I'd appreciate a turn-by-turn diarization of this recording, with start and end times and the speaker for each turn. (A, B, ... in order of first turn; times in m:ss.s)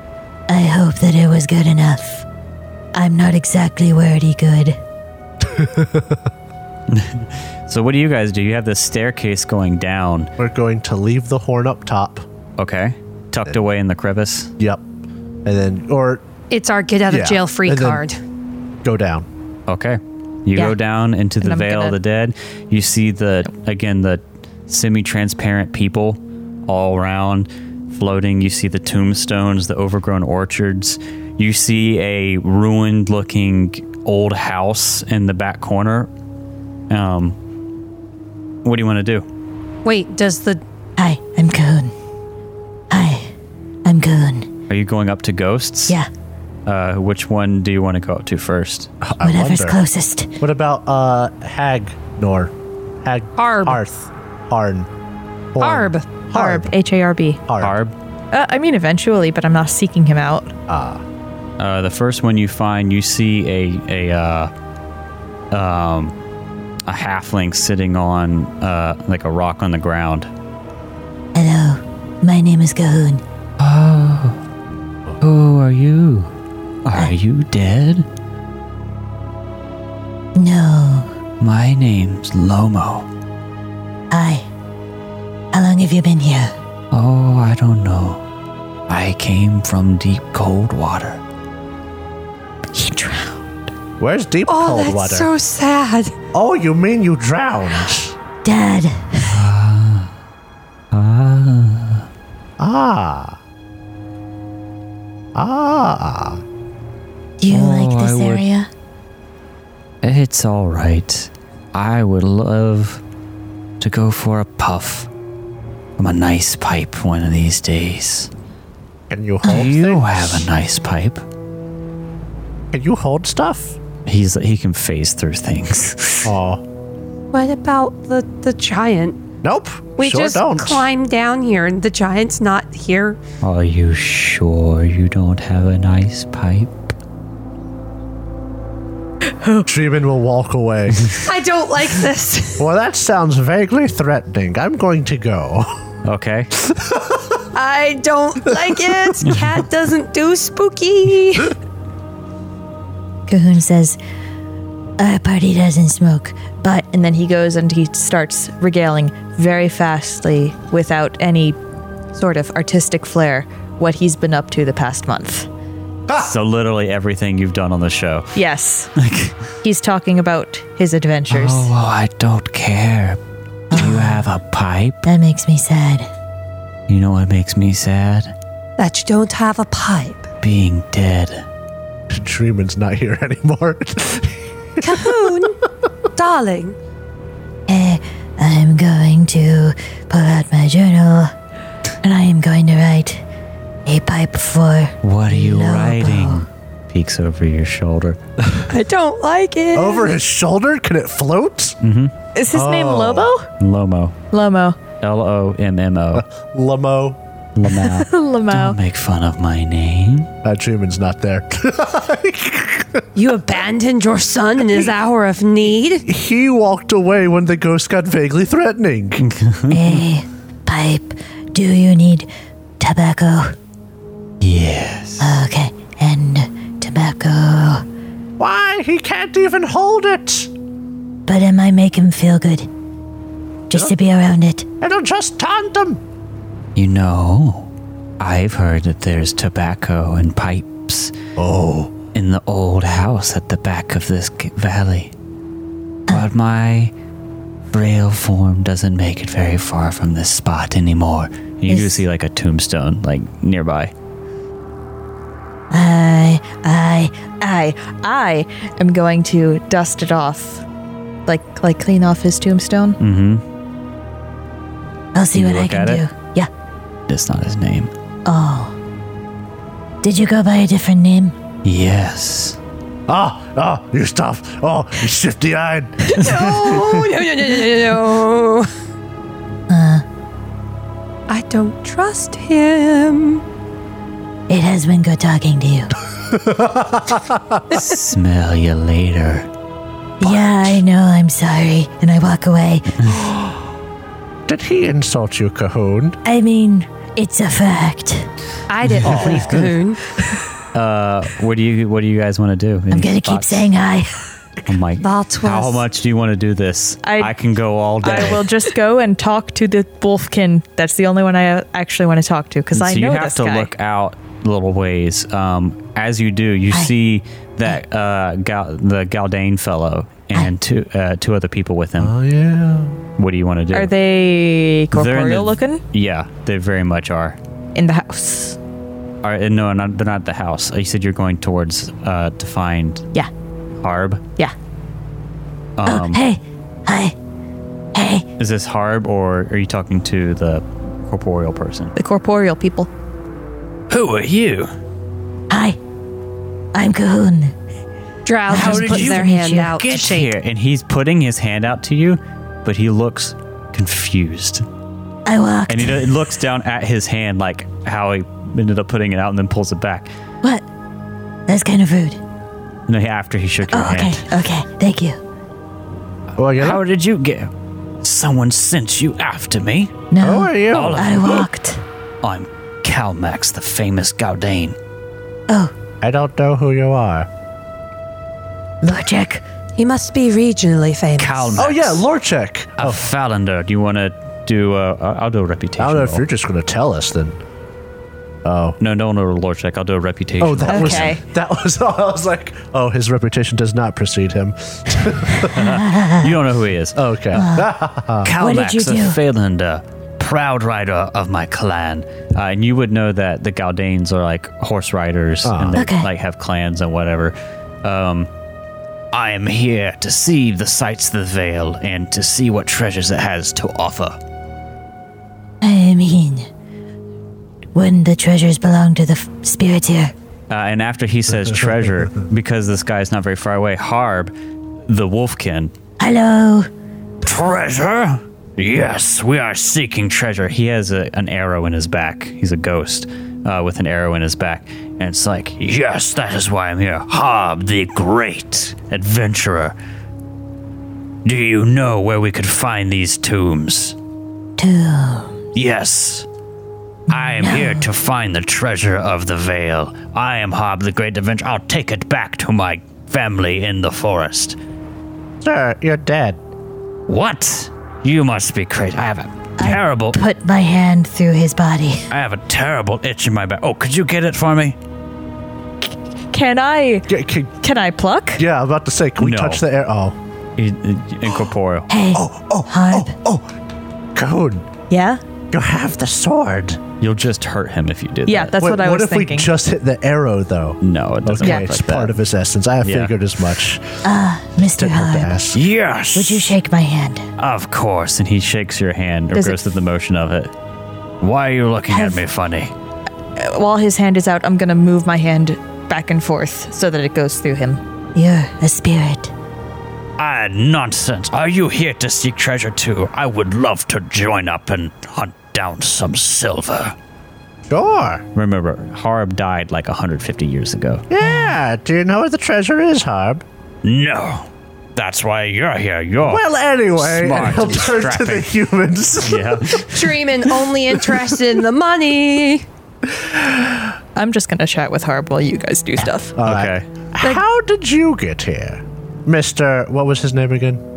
0:00.5-0:02.2 A
0:03.0-0:04.8 A
0:05.4-0:06.2 B
0:06.9-0:10.3 C
0:10.4-0:12.2 B
0:12.6-0:14.5 C
0:14.6-0:14.8 B
0:15.4-0:16.2 B
0:16.5-0:18.2 D
0:17.1-0:18.0 B
0:18.8-0:19.3 B
0:19.7-0:36.1 C
0:21.4-0:22.0 E
0:36.9-0:37.4 C
0:38.6-0:39.2 C
0:39.8-0:40.6 D
0:41.0-0:41.9 A
0:42.9-0:43.3 A
0:43.8-0:44.5 A
0:44.7-0:46.0 C
0:46.7-0:48.9 C
0:49.0-0:49.8 B
0:49.2-0:50.3 A
0:50.4-0:54.9 B
0:53.4-0:53.8 D
0:55.5-0:56.8 B
0:55.6-0:56.1 D
0:56.3-0:57.4 E
0:57.5-0:57.8 B
0:57.6-0:57.9 C
0:58.3-1:00.5 E
1:00.7-1:01.0 B
1:01.6-1:04.5 C
1:05.5-1:06.2 C
1:06.9-1:10.3 C
1:11.4-1:13.2 A
1:13.6-1:14.4 C
1:15.2-1:16.3 C
1:16.8-1:18.1 C
1:20.4-1:21.1 A
1:21.4-1:23.1 C
1:24.1-1:24.5 A
1:25.5-1:26.5 A
1:26.9-1:28.2 C
1:28.9-1:31.2 C
1:32.7-1:33.7 A
1:34.0-1:35.3 B
1:34.5-1:36.1 D
1:36.3-1:38.2 B
1:38.4-1:39.3 A
1:39.2-1:40.1 C
1:40.9-1:42.0 C
1:42.6-1:43.4 B
1:45.4-1:46.4 B
1:47.4-1:48.7 A
1:47.5-1:48.5 C
1:50.0-1:53.0 C
1:53.8-1:55.1 C
1:56.0-1:58.3 C
1:59.1-2:00.5 B
1:59.4-2:01.2 C
2:02.7-2:03.8 B
2:04.1-2:06.3 C
2:06.2-2:06.6 B
2:07.3-2:09.2 D
2:09.4-2:10.9 B
2:10.0-2:13.2 D
2:13.4-2:16.9 C
2:19.6-2:21.2 B
2:21.2-2:22.7 D
2:22.6-2:25.8 B
2:26.0-2:26.5 C
2:26.6-2:27.4 B
2:27.5-2:31.6 D
2:28.5-2:29.2 B
2:33.3-2:34.0 A
2:35.0-2:36.9 A
2:36.8-2:41.6 E
2:42.1-2:45.5 E
2:46.1-2:48.4 C
2:48.4-2:48.9 E
2:49.0-2:49.4 C
2:49.6-2:51.7 E
2:51.3-2:53.2 C
2:53.7-2:55.1 C
2:53.7-2:54.2 A
2:55.1-2:56.1 A
2:56.9-2:58.3 C
2:58.8-3:00.3 D
3:00.4-3:01.4 C
3:02.1-3:05.5 B
3:04.8-3:05.6 D
3:06.2-3:06.8 D
3:07.7-3:11.3 A
3:12.0-3:13.2 A
3:13.9-3:16.4 A
3:15.0-3:18.2 C
3:18.7-3:20.2 D
3:19.7-3:21.8 B
3:21.8-3:22.1 C
3:22.4-3:23.5 E
3:22.5-3:23.3 B
3:23.6-3:24.2 C
3:24.3-3:24.8 E
3:25.0-3:26.3 C
3:26.1-3:27.2 B
3:27.6-3:30.3 C
3:27.7-3:28.8 E
3:30.4-3:33.1 B
3:33.2-3:36.1 D
3:36.0-3:39.2 B
3:39.2-3:40.0 C
3:39.7-3:42.3 A
3:42.8-3:43.6 A
3:44.4-3:45.3 C
3:45.2-3:47.8 A
3:48.4-3:50.5 B
3:51.3-3:52.7 A
3:53.7-3:54.7 A
3:54.8-3:56.0 B
3:56.8-4:01.2 C
4:01.4-4:01.9 B
4:02.1-4:05.1 C
4:06.1-4:06.9 C
4:07.7-4:13.9 C
4:11.7-4:12.0 A
4:15.7-4:17.8 A
4:17.8-4:20.6 E
4:21.3-4:23.0 E
4:23.0-4:23.4 C
4:25.2-4:26.5 A
4:25.3-4:26.0 C
4:27.1-4:27.9 C
4:28.2-4:28.8 A
4:30.0-4:31.4 A
4:31.6-4:32.6 C
4:33.1-4:36.4 B
4:36.0-4:38.7 D
4:39.7-4:40.0 A
4:41.3-4:43.4 D
4:44.5-4:45.9 A
4:46.1-4:47.8 B
4:47.7-4:49.5 C
4:50.2-4:53.0 A
4:54.5-4:56.2 B
4:56.2-4:58.3 A
4:58.7-5:00.0 D
4:58.9-4:59.7 C
4:59.0-4:59.6 B
5:00.7-5:03.7 C
5:02.9-5:04.2 A
5:04.7-5:08.5 C
5:05.0-5:05.9 D
5:07.0-5:07.3 E
5:08.0-5:13.7 E
5:12.7-5:22.1 C
5:22.0-5:23.0 B
5:23.2-5:23.9 C
5:23.7-5:25.8 E
5:24.9-5:27.4 C
5:27.8-5:28.6 E
5:29.2-5:33.1 C
5:33.8-5:34.2 C
5:35.8-5:36.2 C
5:35.9-5:37.2 A
5:38.0-5:38.3 A
5:38.4-5:42.0 C
5:42.0-5:42.9 E
5:43.9-5:44.7 C
5:45.5-5:45.8 A
5:46.7-5:47.5 A
5:48.3-5:50.3 D
5:48.5-5:49.7 A
5:48.5-5:54.6 C
5:55.3-5:56.1 A
5:55.7-6:00.1 C
6:01.5-6:02.2 A
6:02.9-6:04.3 C
6:03.7-6:05.2 A
6:06.4-6:06.8 B
6:06.5-6:07.5 C
6:08.0-6:10.0 C
6:10.1-6:11.8 A
6:10.2-6:11.5 B
6:10.7-6:11.4 C
6:12.2-6:14.8 C
6:16.0-6:17.3 B
6:18.8-6:19.4 A
6:19.8-6:21.6 D
6:21.2-6:22.0 C
6:21.6-6:23.0 B
6:22.8-6:26.2 C
6:25.8-6:27.4 B
6:28.4-6:28.8 B
6:28.8-6:31.2 C
6:30.4-6:35.8 B
6:30.7-6:31.2 E
6:35.5-6:37.5 C
6:35.6-6:36.3 A
6:37.0-6:38.3 B
6:37.4-6:37.7 A
6:38.2-6:48.3 C
6:38.4-6:39.2 A
6:45.4-6:45.8 B
6:45.7-6:46.1 A
6:49.1-6:54.2 C
6:55.6-6:56.5 A
6:57.8-7:00.1 A
7:00.5-7:04.3 C
7:04.9-7:05.7 C
7:06.0-7:06.7 A
7:07.2-7:19.8 C
7:21.2-7:24.0 C
7:24.6-7:25.4 A
7:25.6-7:26.3 C
7:27.1-7:34.6 C
7:27.1-7:27.9 A
7:35.4-7:36.4 B
7:37.1-7:40.2 C
7:39.6-7:42.1 A
7:42.1-7:44.8 C
7:46.3-7:48.4 E
7:47.1-7:47.6 B
7:48.4-7:50.2 B
7:49.2-7:49.6 C
7:50.6-7:51.9 C
7:51.9-7:53.1 A
7:52.1-7:53.5 B
7:54.2-7:54.7 B
7:54.9-7:55.2 E
7:55.5-7:56.8 B
7:57.0-7:58.6 C
7:58.3-7:59.5 E
7:58.6-8:04.0 B
8:00.8-8:02.2 C
8:01.4-8:01.7 E
8:02.8-8:03.2 C
8:04.0-8:05.4 A
8:04.8-8:05.6 B
8:05.5-8:06.6 C
8:06.2-8:07.3 A
8:07.4-8:10.5 C
8:11.2-8:12.7 C
8:11.9-8:12.2 A
8:13.4-8:17.8 E
8:18.2-8:19.3 A
8:20.2-8:27.0 C
8:27.7-8:28.2 B
8:28.4-8:31.1 C
8:31.1-8:33.4 B
8:33.8-8:36.4 C
8:36.2-8:39.9 B
8:37.0-8:38.5 C
8:39.2-8:40.2 C
8:39.9-8:42.6 D
8:43.2-8:43.8 B
8:44.2-8:46.4 E
8:46.4-8:50.8 B
8:46.4-8:46.9 C